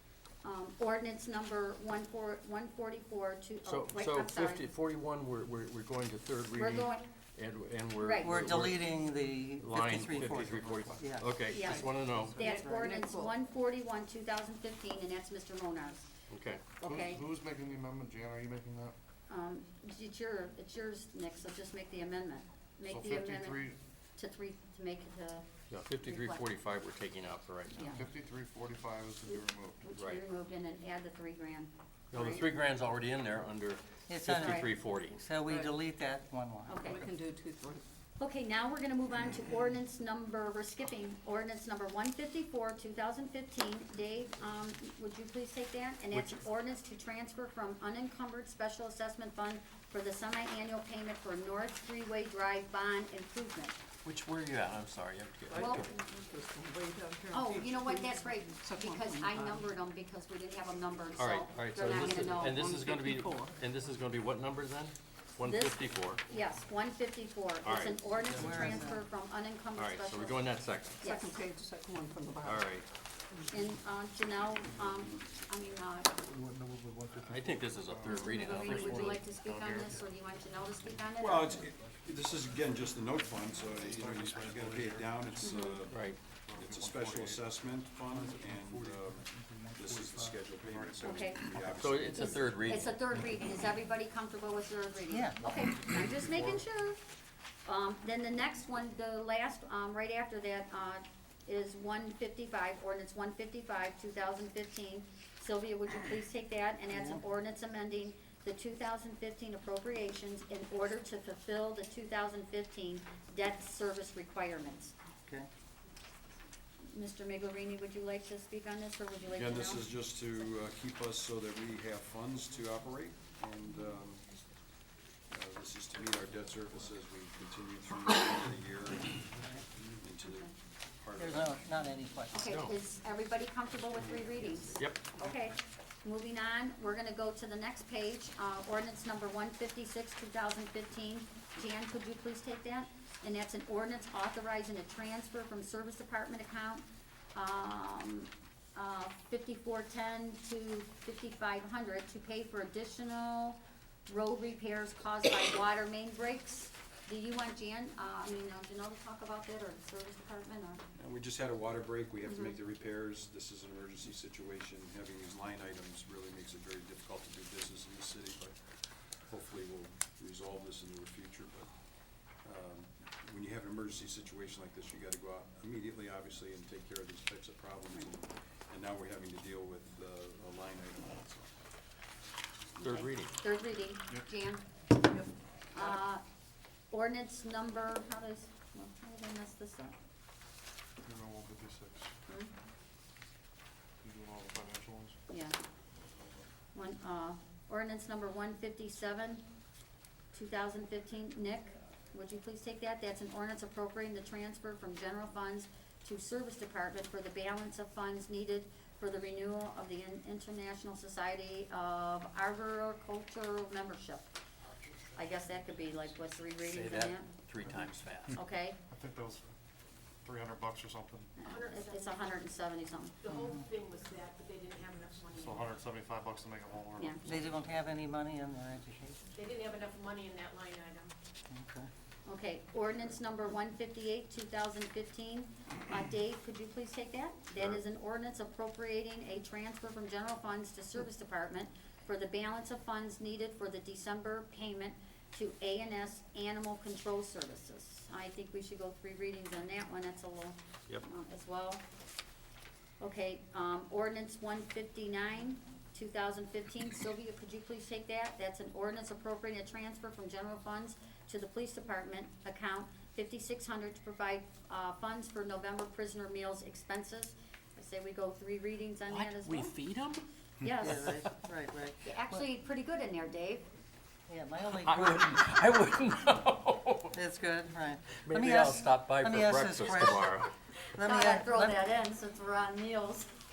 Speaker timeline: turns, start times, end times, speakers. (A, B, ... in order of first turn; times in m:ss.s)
0:00.4-0:04.7 A
0:03.7-0:08.8 B
0:06.6-0:07.0 A
0:08.0-0:08.6 A
0:08.2-0:11.9 C
0:09.6-0:12.4 B
0:11.5-0:16.1 A
0:12.4-0:13.3 D
0:16.3-0:16.7 B
0:16.8-0:19.0 E
0:16.8-0:17.2 A
0:19.3-0:23.6 A
0:22.9-0:23.8 E
0:24.2-0:25.5 A
0:25.7-0:27.9 B
0:26.0-0:26.4 A
0:27.8-0:28.0 A
0:27.9-0:29.9 E
0:29.3-0:32.5 A
0:30.0-0:30.2 B
0:32.1-0:35.2 B
0:34.1-0:36.9 C
0:34.4-0:34.7 A
0:35.4-0:35.7 D
0:36.7-0:37.1 A
0:36.8-0:37.8 D
0:38.2-0:53.8 A
0:54.0-0:55.8 B
0:55.5-0:59.7 D
0:55.6-0:55.9 A
0:57.3-1:02.6 A
1:01.2-1:06.2 B
1:02.0-1:03.5 D
1:05.4-1:10.4 A
1:07.6-1:07.9 B
1:08.3-1:09.0 C
1:09.8-1:11.1 B
1:11.0-1:11.4 A
1:11.0-1:12.7 D
1:12.4-1:12.9 B
1:13.5-1:16.1 A
1:16.2-1:20.1 E
1:17.1-1:19.3 B
1:18.0-1:21.7 A
1:21.2-1:32.3 F
1:23.8-1:25.7 E
1:25.4-1:25.8 A
1:25.9-1:26.2 B
1:26.2-1:32.4 E
1:31.0-1:37.0 A
1:31.8-1:33.0 B
1:35.1-1:35.4 C
1:36.0-1:36.6 E
1:37.6-1:55.0 A
1:46.9-1:47.2 C
1:56.9-1:59.9 A
1:59.3-2:04.3 F
2:05.3-2:09.5 F
2:10.0-2:11.6 F
2:11.2-2:12.5 C
2:12.3-2:26.8 A
2:12.5-2:12.8 B
2:14.8-2:15.0 B
2:27.4-2:40.8 A
2:41.0-2:48.6 F
2:42.3-2:42.5 A
2:49.2-2:51.7 F
2:52.4-3:01.5 F
3:02.8-3:04.7 A
3:02.8-3:03.3 B
3:05.7-3:06.2 A
3:06.9-3:10.0 A
3:11.0-3:12.1 E
3:14.0-3:15.2 E
3:15.3-3:15.6 A
3:16.7-3:19.5 A
3:20.3-3:34.3 A
3:35.1-3:37.3 A
3:36.7-3:38.4 B
3:38.3-3:38.8 A
3:38.9-3:39.5 E
3:40.2-3:41.3 E
3:41.4-3:43.2 A
3:41.4-3:42.4 G
3:43.2-3:45.8 G
3:43.3-3:43.6 C
3:45.4-3:47.7 E
3:47.2-3:49.3 C
3:49.4-3:51.1 G
3:51.5-3:51.9 C
3:52.2-4:11.8 A
4:13.0-4:29.8 A
4:29.1-4:30.2 B
4:30.6-4:31.2 A
4:30.8-4:32.4 C
4:32.0-4:33.7 A
4:34.3-4:35.1 C
4:34.7-4:37.1 B
4:37.1-4:40.3 C
4:38.2-4:40.5 B
4:41.0-4:41.8 C
4:41.0-4:43.3 A